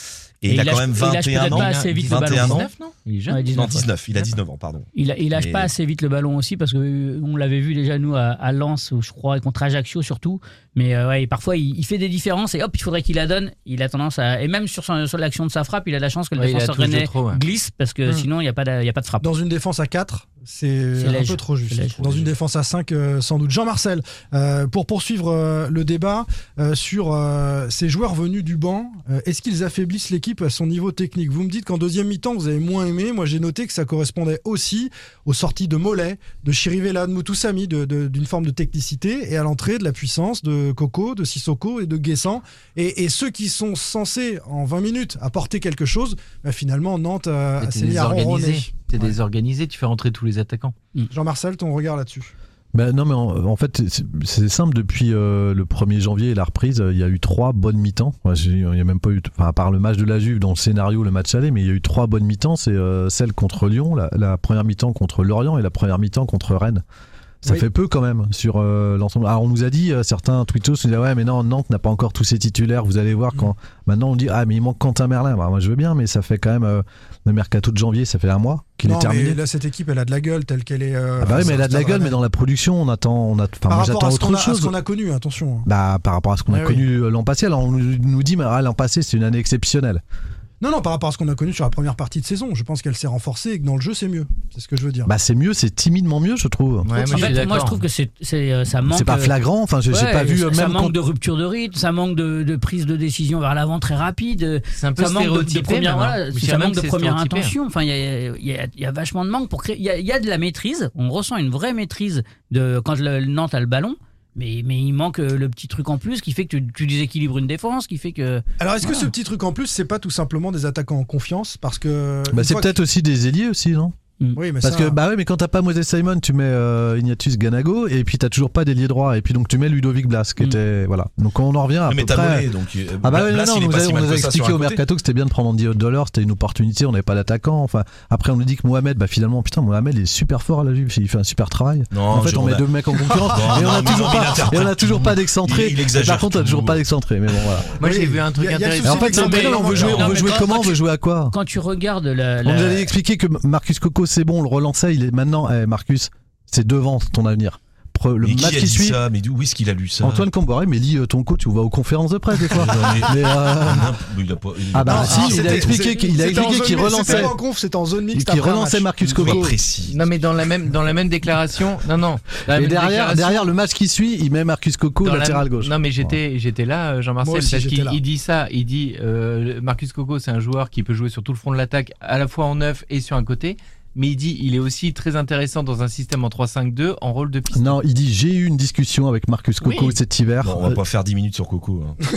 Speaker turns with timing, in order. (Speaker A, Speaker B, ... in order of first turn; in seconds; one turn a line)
Speaker A: 0.4-2.7
Speaker B: 0.5-2.7
Speaker C: 1.4-3.8
Speaker B: 3.3-3.9
Speaker A: 3.5-5.7
Speaker B: 5.0-19.3
Speaker C: 16.4-17.4
Speaker D: 19.2-49.1
Speaker B: 21.0-22.0
Speaker A: 22.0-22.3
Speaker C: 47.6-50.8
Speaker D: 51.1-52.3
Speaker E: 52.7-66.8
Speaker E: 67.4-79.4
Speaker D: 78.8-82.2
Speaker E: 81.2-84.7
Speaker D: 83.7-85.7
Speaker E: 85.7-90.0
Speaker D: 86.5-86.8
Speaker D: 90.6-95.1
Speaker E: 95.1-96.9
Speaker C: 96.8-97.8
Speaker B: 97.1-99.4
Speaker E: 98.9-101.0
Speaker B: 99.9-119.1
Speaker C: 104.8-107.5
Speaker D: 118.6-122.7
Speaker E: 122.3-124.0
Speaker D: 124.4-125.0
Speaker E: 124.6-132.5
Speaker A: 131.9-134.8
Speaker E: 133.0-147.7
Speaker A: 141.9-142.7
Speaker A: 143.3-146.8
Speaker C: 147.8-149.5
Speaker D: 147.8-150.4
Speaker E: 148.8-151.3
Speaker B: 149.0-150.8
Speaker B: 151.3-152.9
Speaker E: 152.4-159.0
Speaker A: 158.2-160.3
Speaker E: 160.0-163.9
Speaker A: 162.6-165.8
Speaker E: 164.7-167.4
Speaker D: 164.8-169.3
Speaker E: 168.1-169.6
Speaker A: 169.1-170.0
Speaker C: 169.9-173.5
Speaker E: 172.5-176.1
Speaker C: 175.0-187.8
Speaker D: 177.2-178.0
Speaker E: 187.5-190.8
Speaker A: 190.4-192.0